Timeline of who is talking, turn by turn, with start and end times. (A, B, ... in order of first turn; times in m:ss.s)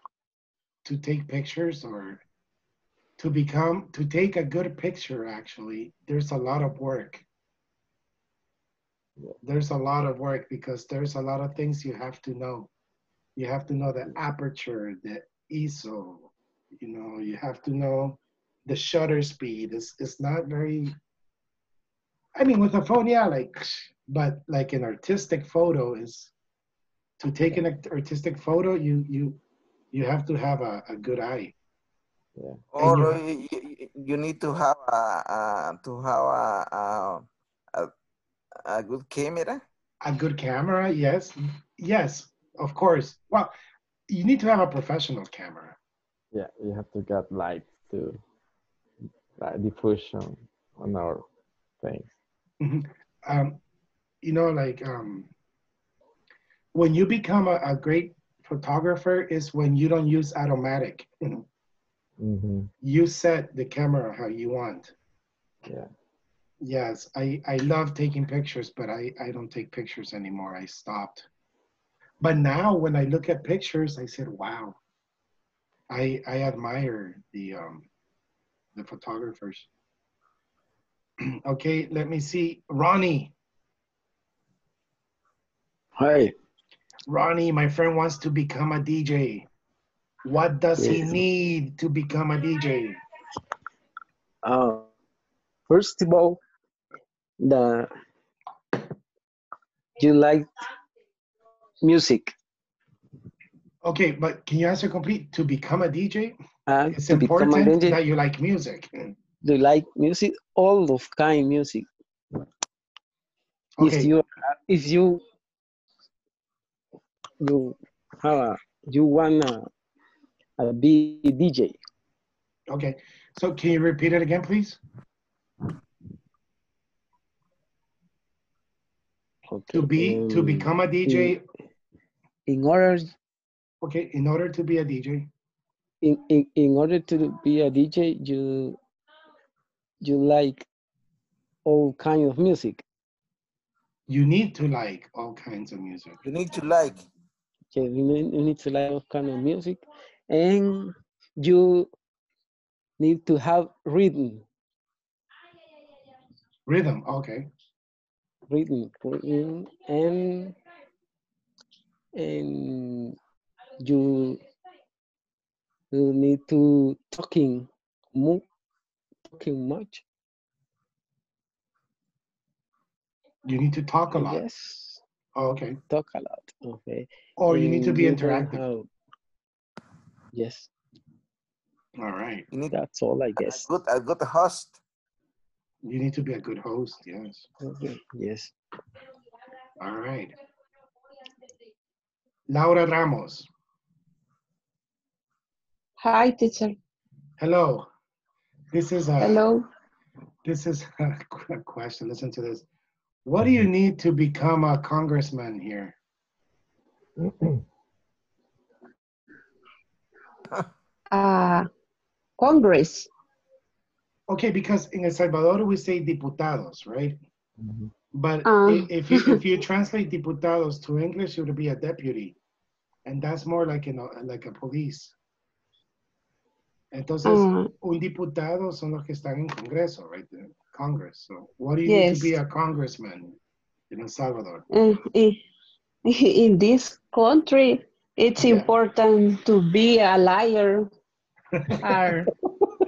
0:00.8-0:02.2 A
0:03.2-0:07.2 A
0:09.4-0:12.7 A
0:13.4-0:21.0 A
0:22.4-0:26.3 A
0:27.2-0:29.4 A
0:29.9-0:31.5 A
0:32.4-0:32.6 B
0:32.7-0:37.9 C
0:32.8-0:33.2 A
0:38.6-0:39.6 C
0:40.0-0:43.5 A
0:44.1-0:45.8 A
0:46.3-0:48.2 B
0:49.4-0:51.2 B
0:51.8-0:52.1 B
0:52.6-0:53.6 A
0:54.2-0:55.3 A
0:56.7-1:01.4 A
1:02.2-1:02.7 B
1:02.8-1:04.9 A
1:06.6-1:11.2 A
1:12.2-1:14.8 A
1:15.9-1:17.8 A
1:18.8-1:19.7 A
1:21.4-1:23.3 A
1:26.0-1:26.3 D
1:27.1-1:29.5 A
1:30.2-1:33.0 A
1:30.8-1:31.2 D
1:34.4-1:34.9 D
1:35.7-1:36.4 D
1:37.4-1:37.9 D
1:40.0-1:40.5 D
1:41.8-1:42.3 D
1:43.8-1:46.4 A
1:46.7-1:48.0 D
1:46.9-1:49.1 A
1:49.4-1:51.9 D
1:53.8-1:54.1 A
1:53.8-1:55.2 D
1:57.4-1:59.7 D
2:00.6-2:01.8 D
2:02.7-2:04.8 A
2:09.5-2:11.3 D
2:09.7-2:11.4 A
2:12.5-2:13.1 D
2:13.8-2:15.3 A
2:16.0-2:18.8 D
2:20.0-2:20.7 D
2:21.6-2:22.8 D
2:24.1-2:26.2 A
2:26.2-2:27.0 C
2:27.7-2:31.9 D
2:33.0-2:34.4 D
2:36.7-2:37.5 A
2:38.5-2:40.6 D
2:42.1-2:43.2 D
2:43.8-2:44.4 D
2:45.9-2:48.4 D
2:49.3-2:50.0 D
2:53.4-2:54.4 A
2:54.1-2:55.0 D
2:55.4-2:55.8 A
2:55.9-2:58.9 D
2:57.4-2:58.6 A
3:00.3-3:00.7 D
3:02.0-3:02.4 A
3:02.6-3:03.7 D
3:03.4-3:04.8 C
3:05.8-3:07.4 A
3:07.6-3:08.5 D
3:09.8-3:10.3 A
3:12.5-3:13.5 A
3:16.0-3:16.7 E
3:17.4-3:17.9 A
3:18.7-3:19.4 A
3:19.2-3:19.6 E
3:20.4-3:22.6 A
3:23.2-3:25.9 A
3:27.2-3:27.6 B
3:31.1-3:31.6 E
3:32.4-3:33.1 E
3:34.3-3:37.2 A
3:37.6-3:37.9 B
3:38.1-3:42.4 A
3:38.4-3:39.4 E
3:43.0-3:45.1 A
3:46.9-3:53.4 A
3:47.2-3:47.7 E
3:51.8-3:52.3 E
3:53.9-3:54.7 A
3:54.7-3:55.4 E
3:56.1-4:00.9 E
3:58.4-3:58.7 A
4:01.6-4:02.0 A
4:02.4-4:02.7 B